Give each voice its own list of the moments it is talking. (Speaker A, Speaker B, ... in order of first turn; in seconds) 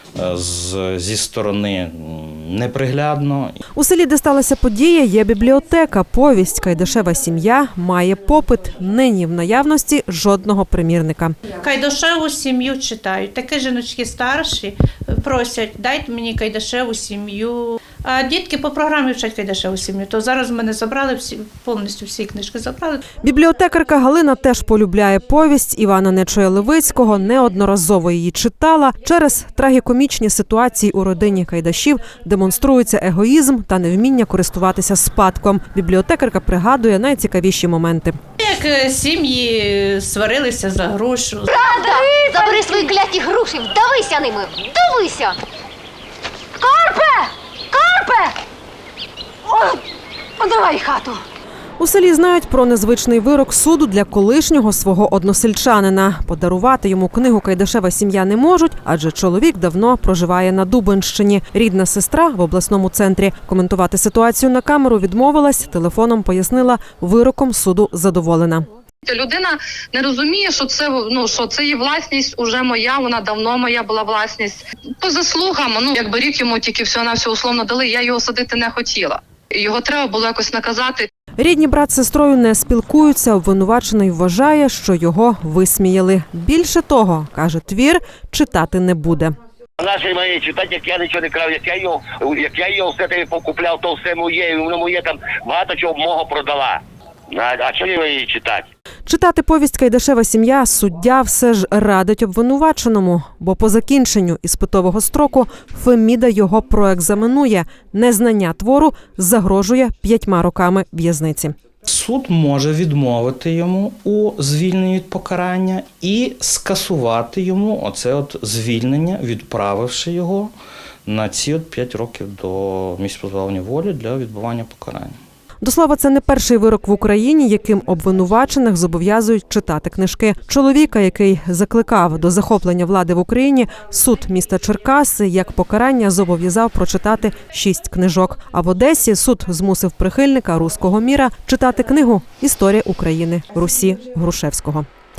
Speaker A: 0.2-3.6, 111.9-120.5, 121.0-125.2
Speaker B: 3.7-11.4, 23.2-38.2, 51.8-68.7, 81.4-89.3, 99.0-111.5, 125.6-144.8
Speaker C: 11.6-23.0, 38.4-42.9
Speaker D: 41.5-45.4, 46.6-48.4, 49.5-49.8, 50.4-51.2
Speaker E: 69.0-81.1
Speaker F: 89.8-98.7